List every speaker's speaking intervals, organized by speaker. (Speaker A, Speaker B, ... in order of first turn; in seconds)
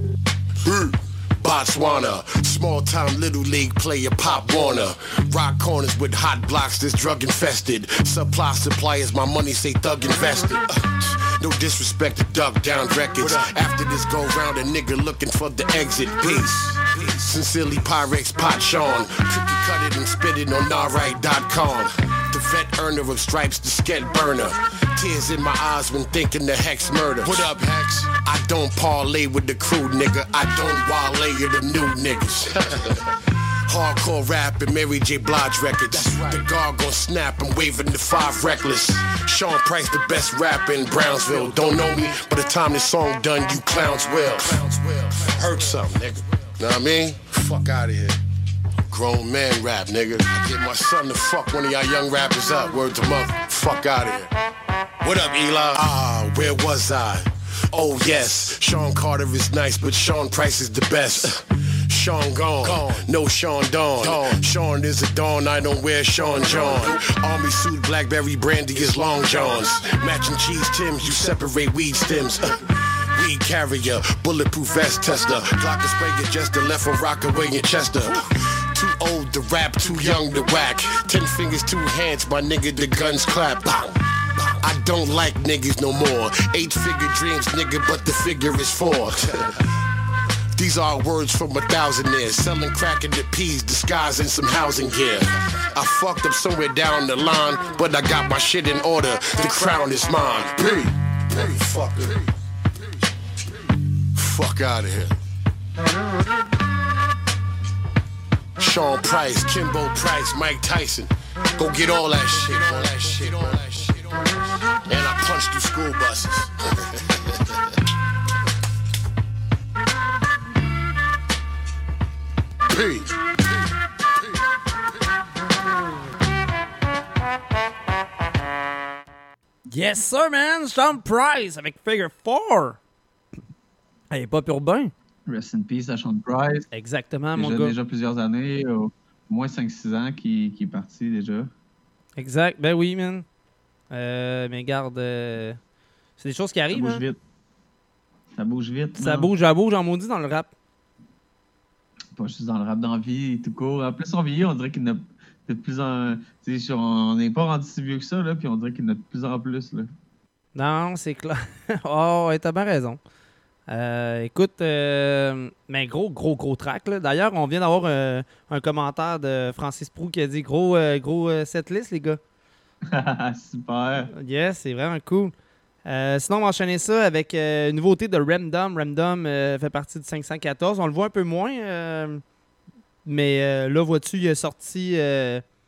Speaker A: 1.4-10.7, 11.4-33.0, 33.7-48.2, 48.9-54.3, 55.0-72.5, 73.1-83.8, 84.4-89.4, 90.5-102.2, 104.2-105.2, 108.6-114.0, 114.9-116.6, 122.7-123.1
Speaker B: 129.7-132.8, 134.1-134.9, 136.7-137.8, 142.2-143.2, 143.9-145.6, 146.2-147.0, 149.0-150.5, 160.6-163.0, 163.7-172.2, 174.1-175.3, 175.9-182.2, 183.1-185.4
Speaker C: 135.3-136.7, 137.4-141.5, 146.7-147.2, 148.3-149.3, 152.2-159.9, 172.9-174.1